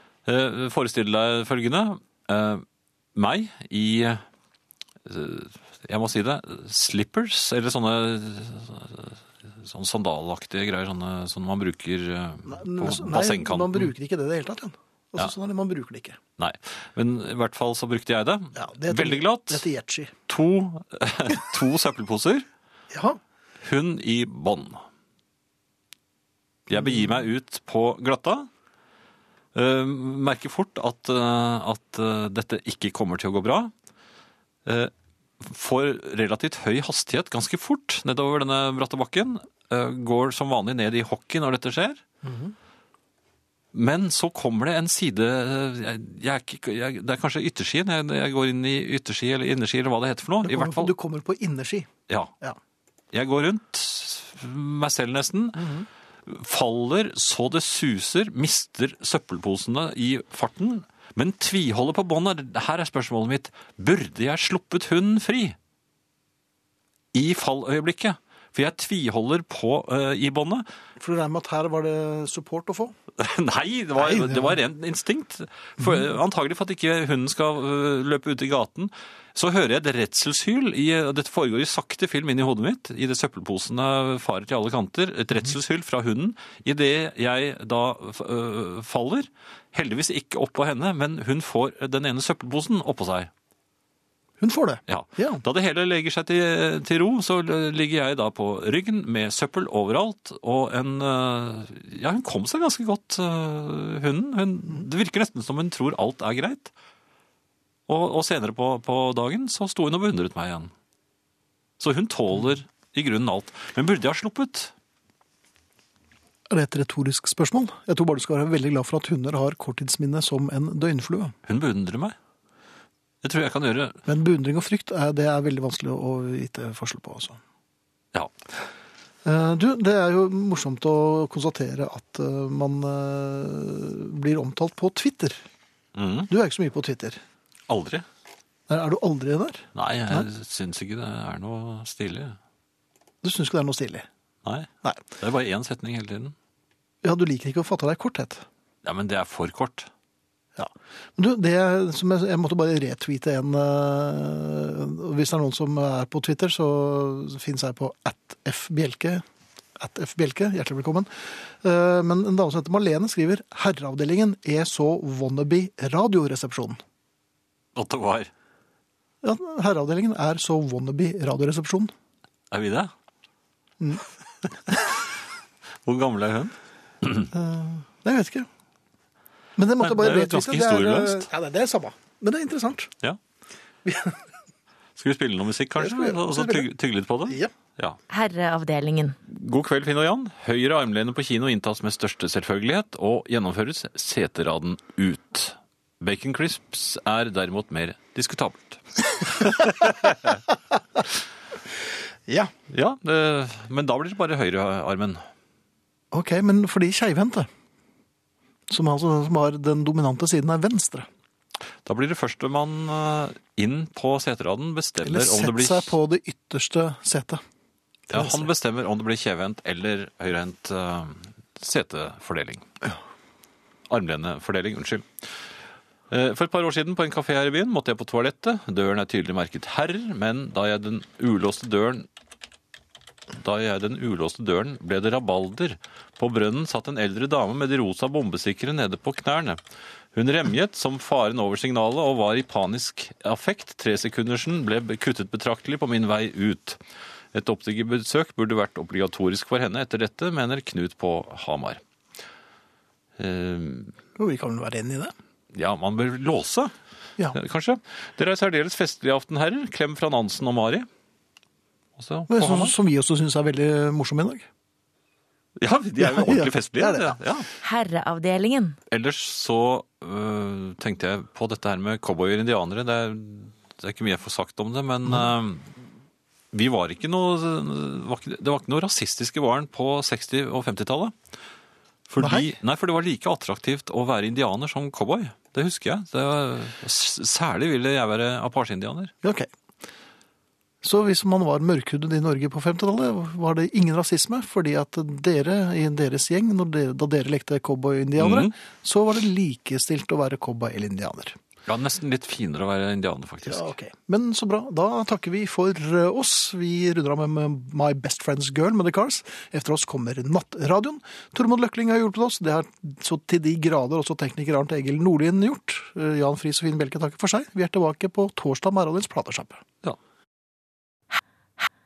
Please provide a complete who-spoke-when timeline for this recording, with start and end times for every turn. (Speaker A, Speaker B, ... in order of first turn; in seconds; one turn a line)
Speaker A: 0.2-4.2
Speaker A: 5.0-13.9
Speaker B: 12.4-16.2
Speaker A: 16.4-19.6
Speaker B: 18.5-20.1
Speaker A: 20.3-22.4
Speaker B: 22.9-23.2
Speaker A: 23.6-24.8
Speaker A: 26.7-28.5
Speaker A: 29.5-33.7
Speaker A: 34.6-42.0
Speaker B: 42.2-42.5
Speaker A: 43.7-50.9
Speaker B: 50.4-51.9
Speaker A: 53.1-65.5
Speaker B: 55.6-55.9
Speaker A: 67.1-70.7
Speaker B: 71.0-72.9
Speaker A: 73.2-93.3
Speaker B: 74.0-74.6
Speaker B: 94.4-95.4
Speaker A: 94.9-106.7
Speaker A: 107.9-110.7
Speaker A: 111.8-114.7
Speaker B: 116.5-121.3
Speaker A: 121.5-122.2
Speaker A: 123.2-124.0
Speaker B: 124.0-127.4
Speaker B: 129.2-135.4
Speaker A: 135.9-136.3
Speaker B: 136.3-137.2
Speaker A: 137.7-138.1
Speaker B: 138.7-140.3
Speaker A: 139.7-142.4
Speaker B: 143.2-144.1
Speaker A: 144.4-146.3
Speaker B: 147.0-148.4
Speaker A: 148.8-149.9
Speaker B: 150.6-159.2
Speaker B: 159.8-166.8
Speaker A: 167.7-168.3
Speaker B: 169.2-171.9
Speaker A: 172.5-172.9
Speaker A: 174.7-175.1
Speaker A: 175.8-177.2
Speaker B: 177.3-178.5
Speaker B: 179.6-182.9
Speaker A: 179.8-181.3
Speaker B: 183.8-184.2
Speaker A: 184.9-188.0
Speaker B: 185.8-186.7
Speaker B: 187.3-187.5
Speaker C: 188.1-189.2
Speaker A: 189.2-200.4
Speaker B: 199.4-199.9
Speaker B: 202.3-202.5
Speaker A: 202.7-205.2
Speaker B: 206.1-207.5
Speaker B: 208.7-211.1
Speaker A: 211.8-215.9
Speaker B: 215.0-217.4
Speaker B: 218.1-218.5
Speaker A: 218.1-222.7
Speaker A: 223.9-225.3
Speaker A: 226.1-232.1
Speaker A: 233.4-239.6
Speaker A: 240.1-246.8
Speaker A: 247.3-251.8
Speaker A: 253.2-253.9
Speaker B: 254.2-255.1
Speaker A: 255.5-256.7
Speaker A: 257.3-260.9
Speaker A: 262.0-262.7
Speaker B: 262.3-264.5
Speaker A: 265.6-267.5
Speaker B: 266.0-267.2
Speaker C: 267.6-268.8
Speaker A: 268.9-275.8
Speaker A: 276.5-281.1
Speaker A: 282.1-289.1
Speaker B: 282.2-282.5
Speaker B: 289.2-289.5
Speaker B: 290.8-301.4
Speaker A: 298.2-298.5
Speaker A: 301.6-303.7
Speaker B: 303.4-319.6